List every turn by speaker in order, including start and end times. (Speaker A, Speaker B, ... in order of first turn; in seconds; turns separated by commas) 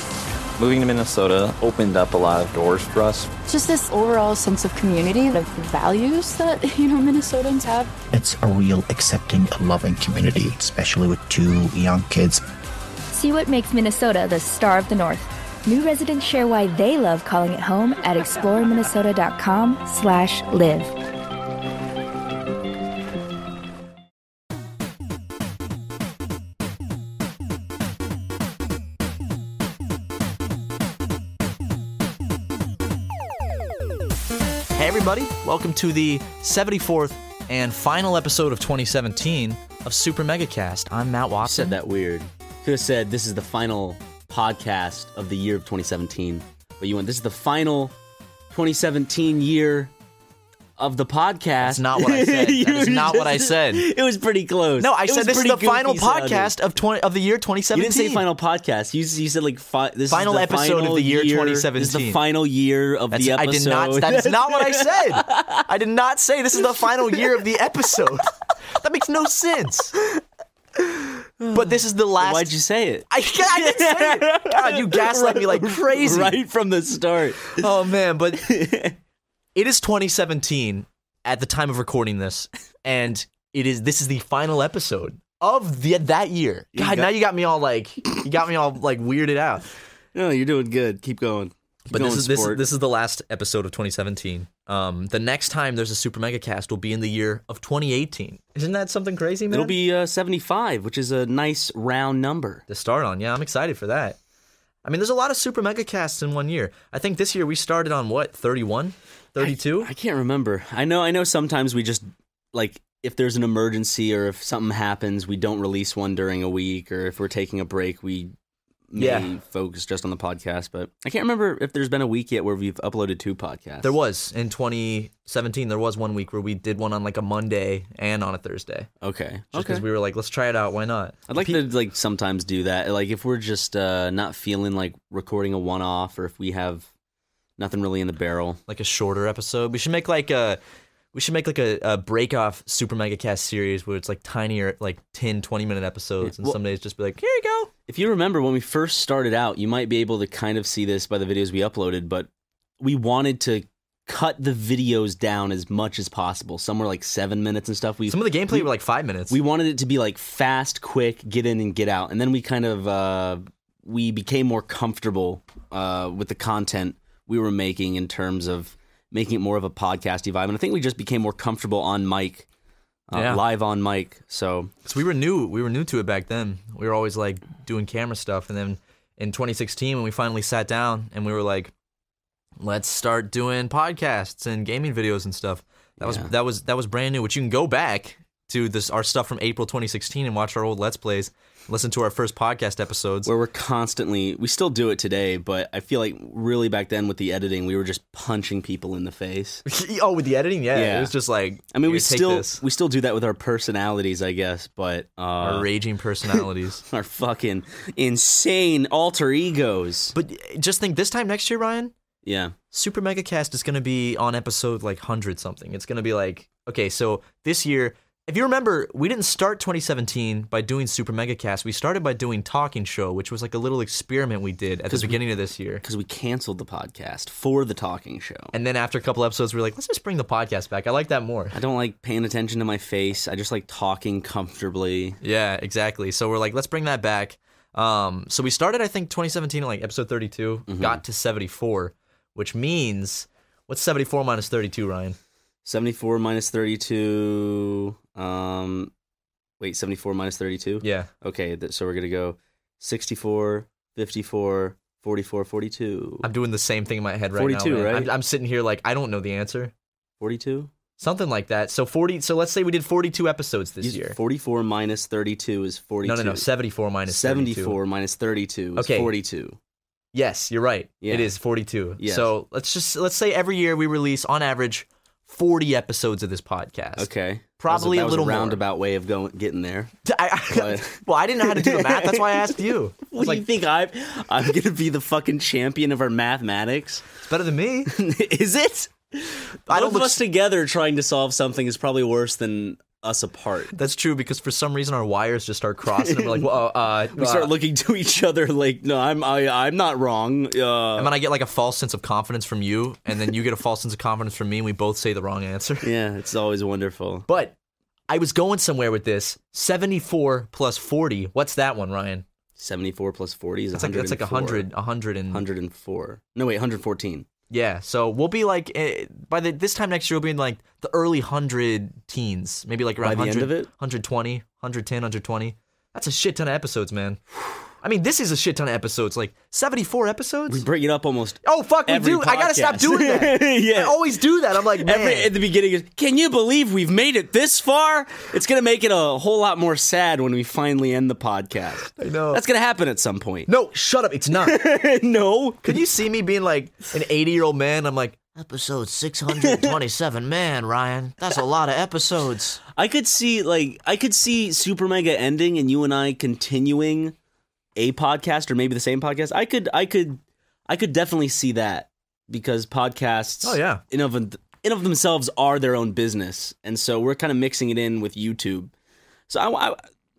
Speaker A: 0.6-3.3, Speaker B: 3.5-7.9, Speaker C: 8.1-12.4, Speaker D: 13.1-20.9, Speaker E: 34.8-41.7, Speaker F: 41.4-47.9, Speaker F: 48.5-49.9, Speaker F: 50.8-56.5, Speaker E: 51.6-53.9, Speaker E: 54.8-58.2, Speaker F: 57.7-65.6, Speaker E: 60.1-62.2, Speaker E: 63.1-69.9, Speaker F: 71.4-77.7, Speaker E: 71.5-72.5, Speaker E: 73.1-76.4, Speaker E: 77.5-78.5, Speaker F: 78.4-79.0, Speaker E: 79.5-89.7, Speaker F: 86.7-87.1, Speaker F: 90.1-92.7, Speaker E: 91.9-99.7, Speaker F: 99.5-102.6, Speaker E: 102.7-104.2, Speaker E: 104.8-109.9, Speaker F: 109.4-118.3, Speaker F: 118.9-123.9, Speaker E: 119.0-119.3, Speaker E: 123.8-128.9, Speaker F: 129.0-129.8, Speaker E: 129.5-131.6, Speaker F: 131.3-136.9, Speaker F: 137.6-138.6, Speaker E: 138.7-140.6, Speaker E: 141.1-147.7, Speaker F: 146.2-146.6, Speaker F: 147.9-152.3, Speaker F: 152.8-158.7, Speaker E: 158.1-159.4, Speaker F: 159.3-172.4, Speaker F: 173.1-174.7, Speaker E: 173.1-173.4, Speaker E: 174.8-181.7, Speaker E: 182.6-193.3, Speaker F: 186.0-186.3, Speaker F: 193.2-199.6, Speaker E: 199.7-202.6, Speaker F: 200.7-201.1, Speaker F: 201.7-205.7, Speaker E: 205.4-206.8, Speaker F: 206.2-210.1, Speaker E: 210.1-211.9, Speaker F: 212.2-212.5, Speaker E: 212.7-225.8, Speaker F: 224.9-225.2, Speaker F: 225.8-228.5, Speaker E: 228.5-231.5, Speaker F: 231.5-235.2, Speaker E: 235.2-245.2, Speaker F: 240.7-241.0, Speaker F: 245.6-248.9, Speaker F: 249.6-256.3, Speaker E: 250.8-251.1, Speaker E: 256.2-259.7, Speaker F: 257.3-258.1, Speaker F: 260.2-260.7, Speaker E: 261.0-264.2, Speaker F: 263.8-266.4, Speaker E: 266.0-267.8, Speaker F: 267.1-269.6, Speaker E: 268.8-269.1, Speaker E: 270.1-278.6, Speaker F: 271.0-271.3, Speaker F: 272.0-272.3, Speaker F: 277.0-279.9, Speaker E: 280.1-283.4, Speaker F: 280.5-287.1, Speaker E: 287.2-287.9, Speaker F: 287.9-293.7, Speaker E: 289.7-290.2, Speaker E: 293.7-297.5, Speaker F: 295.9-301.1, Speaker E: 300.9-305.9, Speaker F: 305.8-307.2, Speaker E: 307.3-307.5, Speaker E: 308.1-312.2, Speaker F: 312.6-314.6, Speaker E: 313.7-315.4, Speaker F: 315.3-317.3, Speaker E: 317.5-327.2, Speaker F: 323.0-323.7, Speaker E: 327.8-330.6, Speaker F: 330.5-334.0, Speaker E: 331.4-335.3, Speaker F: 334.6-343.5, Speaker E: 342.0-342.4, Speaker E: 343.5-344.6, Speaker F: 344.3-345.8, Speaker E: 345.6-352.6, Speaker F: 349.3-349.8, Speaker F: 352.7-357.1, Speaker F: 357.7-368.7, Speaker E: 363.4-363.8, Speaker F: 369.3-369.8